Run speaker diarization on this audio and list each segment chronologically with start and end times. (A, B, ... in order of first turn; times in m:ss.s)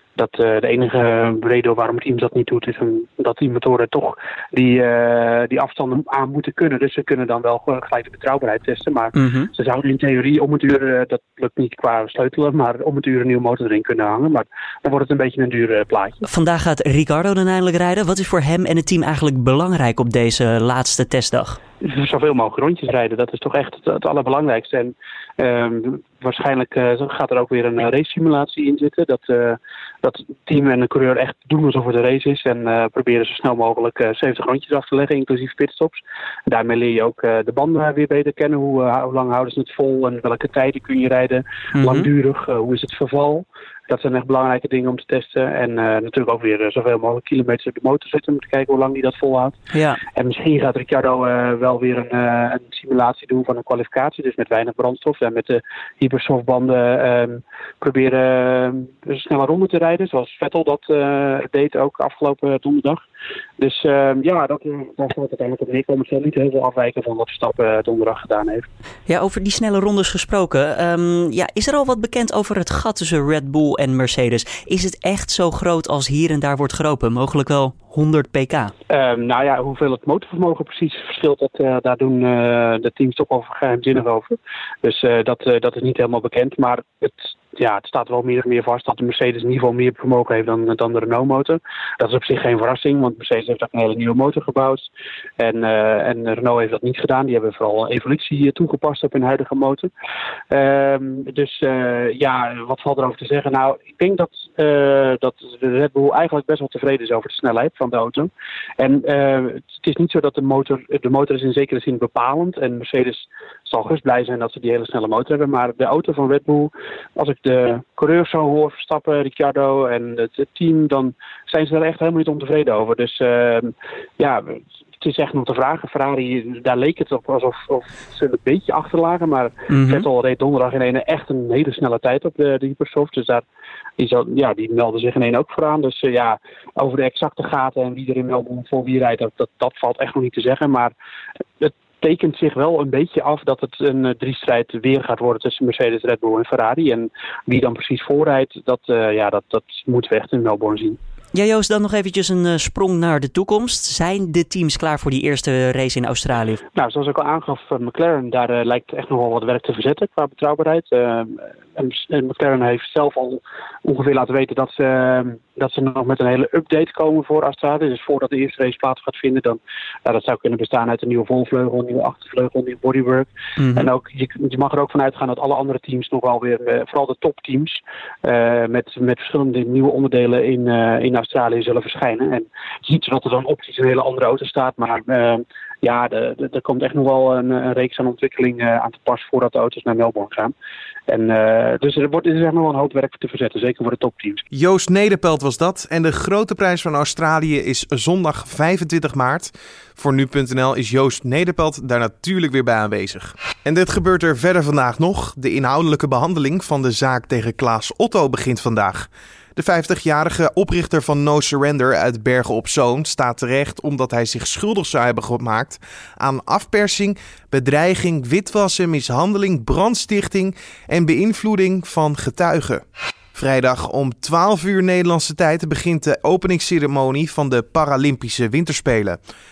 0:00.2-0:16.2 A
0:09.2-0:09.5 B
0:16.2-0:21.6 B
0:21.8-1:03.0 A
0:41.7-0:42.1 B
0:49.7-0:50.0 B
1:03.6-1:08.6 A
1:09.1-1:18.7 B
1:18.9-1:39.9 A
1:40.5-2:13.4 A
2:09.7-2:10.0 B
2:14.0-2:20.9 A
2:21.6-2:31.0 A
2:31.3-2:36.6 B
2:36.7-3:10.5 A
2:53.6-2:53.9 B
3:11.1-3:14.4 A
3:14.5-3:42.8 C
3:43.3-3:49.2 C